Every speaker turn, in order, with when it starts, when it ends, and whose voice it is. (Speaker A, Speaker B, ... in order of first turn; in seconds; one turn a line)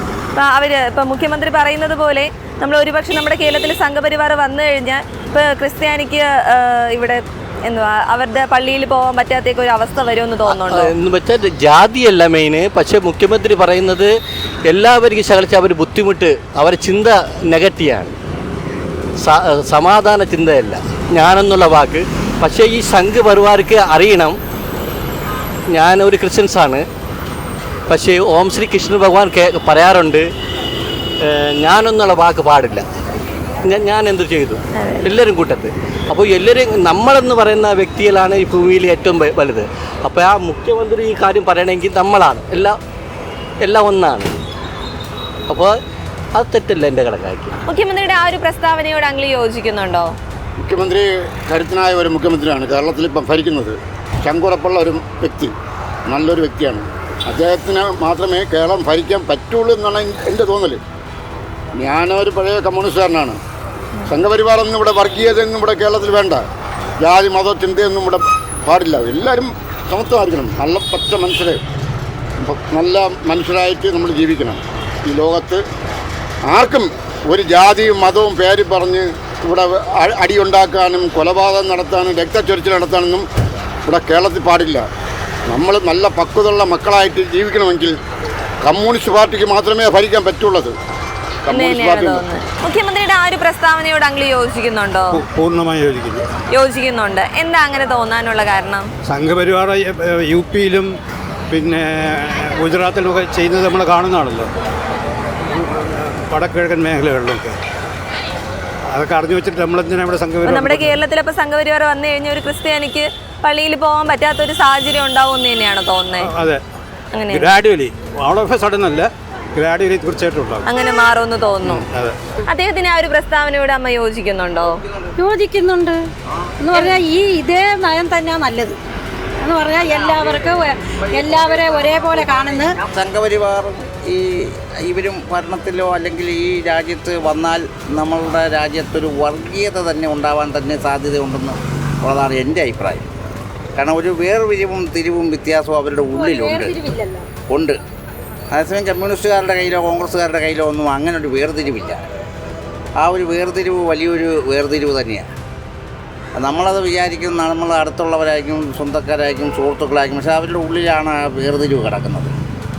Speaker A: 0.3-10.9
Speaker B: 10.5-14.1
Speaker B: 14.7-18.1
Speaker B: 19.2-24.4
Speaker B: 25.7-26.8
Speaker B: 27.9-30.2
Speaker B: 31.3-32.8
Speaker B: 33.6-42.8
Speaker A: 34.8-35.2
Speaker B: 43.6-44.3
Speaker B: 45.5-45.7
Speaker B: 46.3-47.6
Speaker A: 47.7-50.1
Speaker C: 50.6-55.5
Speaker C: 56.1-60.8
Speaker C: 61.8-63.4
Speaker C: 64.0-66.4
Speaker C: 67.0-71.6
Speaker C: 72.4-75.6
Speaker C: 76.5-83.2
Speaker C: 83.9-84.8
Speaker C: 85.5-88.0
Speaker C: 88.6-90.7
Speaker C: 91.5-92.2
Speaker A: 91.5-95.2
Speaker D: 95.1-96.2
Speaker A: 96.5-98.9
Speaker D: 99.1-100.9
Speaker D: 101.5-104.5
Speaker D: 105.5-107.6
Speaker D: 108.9-111.0
Speaker A: 110.4-116.3
Speaker D: 116.2-116.6
Speaker A: 117.1-117.5
Speaker D: 117.3-120.6
Speaker A: 120.7-121.8
Speaker D: 121.6-122.1
Speaker A: 122.5-124.8
Speaker E: 125.2-126.0
Speaker E: 126.6-128.8
Speaker E: 129.4-132.7
Speaker F: 132.9-143.1
Speaker F: 143.8-146.8
Speaker E: 146.1-147.3
Speaker F: 147.5-147.8
Speaker F: 148.5-152.1
Speaker F: 153.0-155.3
Speaker F: 156.4-162.3